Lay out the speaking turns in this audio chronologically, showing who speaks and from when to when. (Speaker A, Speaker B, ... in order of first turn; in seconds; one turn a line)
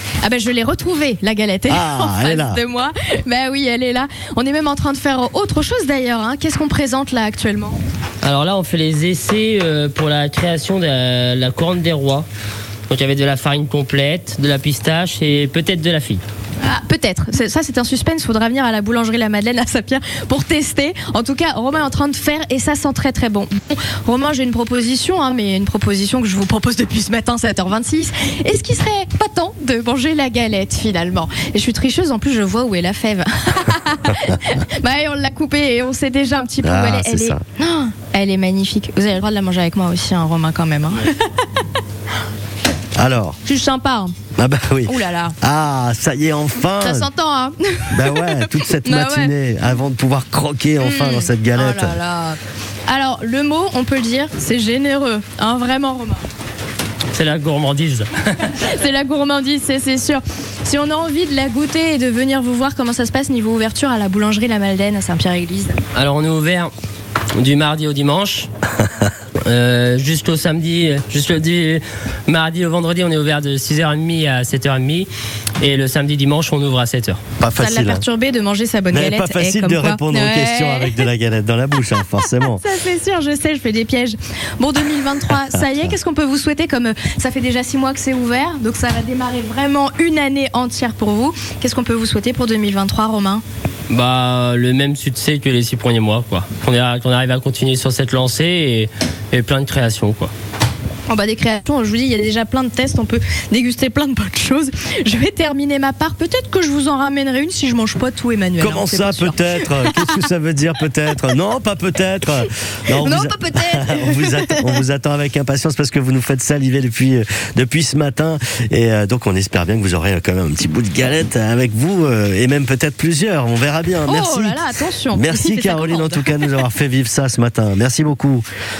Speaker A: 0.2-7.8
Speaker B: 1.7-2.6
Speaker C: 8.2-12.3
Speaker C: 12.9-16.2
Speaker A: 16.6-41.7
Speaker B: 36.6-37.4
Speaker B: 43.0-43.4
Speaker A: 43.4-44.1
Speaker B: 44.4-47.1
Speaker A: 44.9-45.4
Speaker A: 46.8-49.3
Speaker B: 47.9-52.0
Speaker A: 50.8-56.2
Speaker C: 57.1-58.5
Speaker A: 58.5-65.8
Speaker C: 65.9-66.7
Speaker C: 67.4-68.5
Speaker C: 69.4-77.2
Speaker B: 77.4-78.0
Speaker A: 77.6-81.1
Speaker B: 78.9-82.6
Speaker A: 81.9-93.4
Speaker B: 85.6-85.9
Speaker C: 93.9-100.3
Speaker A: 101.1-110.1
Speaker B: 108.6-128.4
Speaker A: 113.0-114.8
Speaker A: 124.0-126.6